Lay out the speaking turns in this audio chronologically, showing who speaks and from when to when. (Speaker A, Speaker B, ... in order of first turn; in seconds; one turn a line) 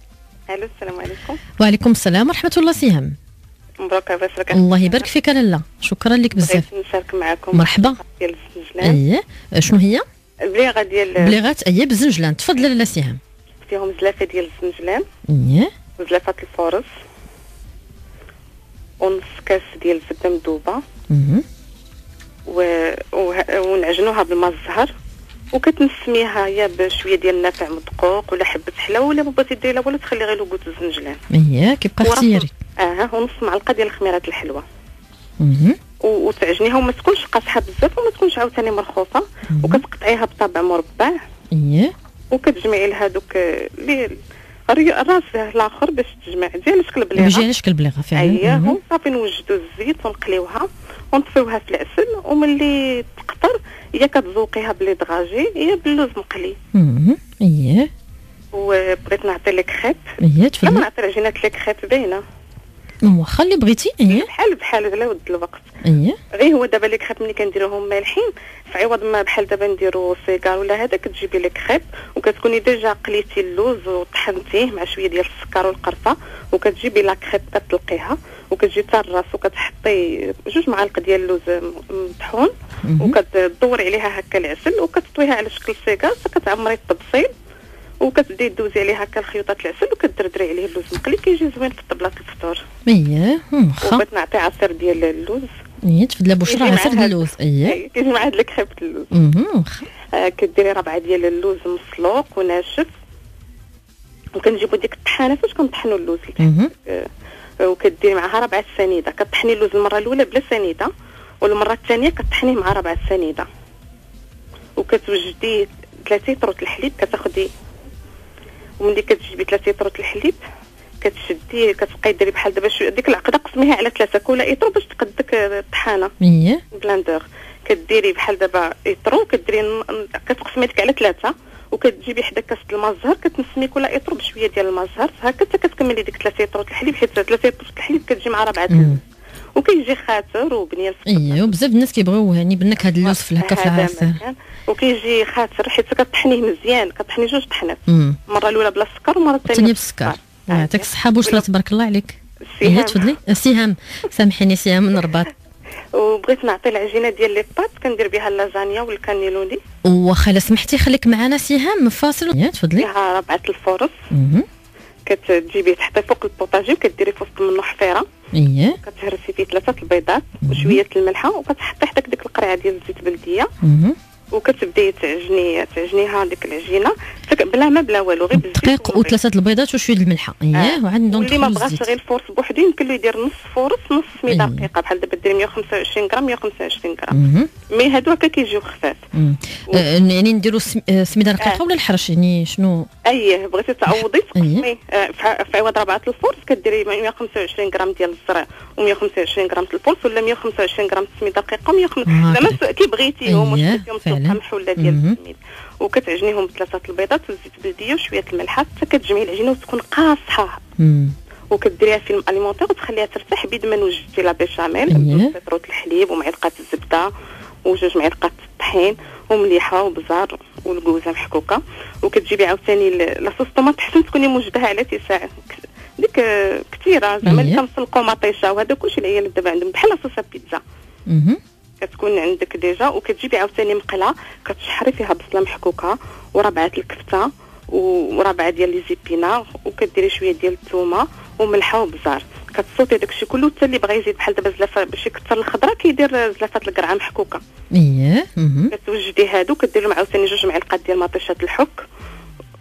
Speaker A: 0.5-1.4
Speaker B: 1.6-3.1
Speaker A: 3.8-5.1
Speaker B: 4.5-6.6
Speaker A: 6.3-9.0
Speaker B: 7.5-8.0
Speaker B: 8.8-10.0
Speaker A: 10.4-11.4
Speaker B: 11.2-13.2
Speaker A: 13.6-15.0
Speaker B: 15.3-15.7
Speaker A: 16.0-16.9
Speaker A: 19.0-20.8
Speaker B: 21.1-21.4
Speaker A: 22.5-24.9
Speaker A: 25.5-31.2
Speaker B: 31.3-32.5
Speaker A: 32.0-34.6
Speaker B: 35.4-35.8
Speaker A: 36.0-41.2
Speaker B: 39.5-39.8
Speaker B: 41.5-41.9
Speaker A: 42.3-44.2
Speaker A: 44.7-47.5
Speaker B: 47.1-48.8
Speaker A: 48.1-56.6
Speaker B: 56.7-57.9
Speaker A: 58.5-60.0
Speaker B: 60.2-60.9
Speaker A: 60.6-62.2
Speaker B: 63.0-64.3
Speaker A: 64.0-65.7
Speaker B: 65.8-66.2
Speaker A: 66.3-87.3
Speaker B: 82.8-83.2
Speaker A: 88.0-92.6
Speaker B: 92.9-94.0
Speaker A: 93.8-95.5
Speaker B: 95.8-97.8
Speaker A: 96.5-99.1
Speaker B: 99.1-99.9
Speaker A: 100.1-102.9
Speaker A: 104.4-107.1
Speaker B: 106.4-106.7
Speaker A: 107.6-110.9
Speaker A: 111.4-113.5
Speaker A: 114.8-117.5
Speaker A: 118.8-120.4
Speaker A: 121.0-126.1
Speaker B: 126.2-126.6
Speaker A: 126.7-139.0
Speaker B: 138.7-139.0
Speaker A: 139.6-141.6
Speaker B: 141.1-144.2
Speaker A: 143.0-151.4
Speaker B: 147.9-148.2
Speaker B: 149.4-155.3
Speaker A: 152.6-153.1
Speaker A: 155.9-159.6
Speaker B: 159.8-162.9
Speaker A: 162.8-163.9
Speaker B: 164.1-164.4
Speaker A: 165.1-168.1
Speaker B: 168.3-168.8
Speaker A: 168.8-173.5
Speaker B: 170.4-170.8
Speaker B: 173.6-174.0
Speaker A: 174.3-179.2
Speaker B: 178.3-181.9
Speaker A: 180.5-187.2
Speaker B: 184.3-184.7
Speaker B: 187.1-187.5
Speaker A: 187.7-189.0
Speaker B: 189.1-192.9
Speaker A: 193.1-210.6
Speaker B: 194.3-194.7
Speaker B: 202.1-202.6
Speaker B: 203.2-205.2
Speaker B: 210.8-211.1
Speaker A: 211.5-217.1
Speaker B: 214.9-215.3
Speaker A: 217.7-230.6
Speaker B: 227.2-227.6
Speaker B: 231.1-231.4
Speaker A: 231.8-247.4
Speaker B: 247.7-248.7
Speaker A: 248.7-251.8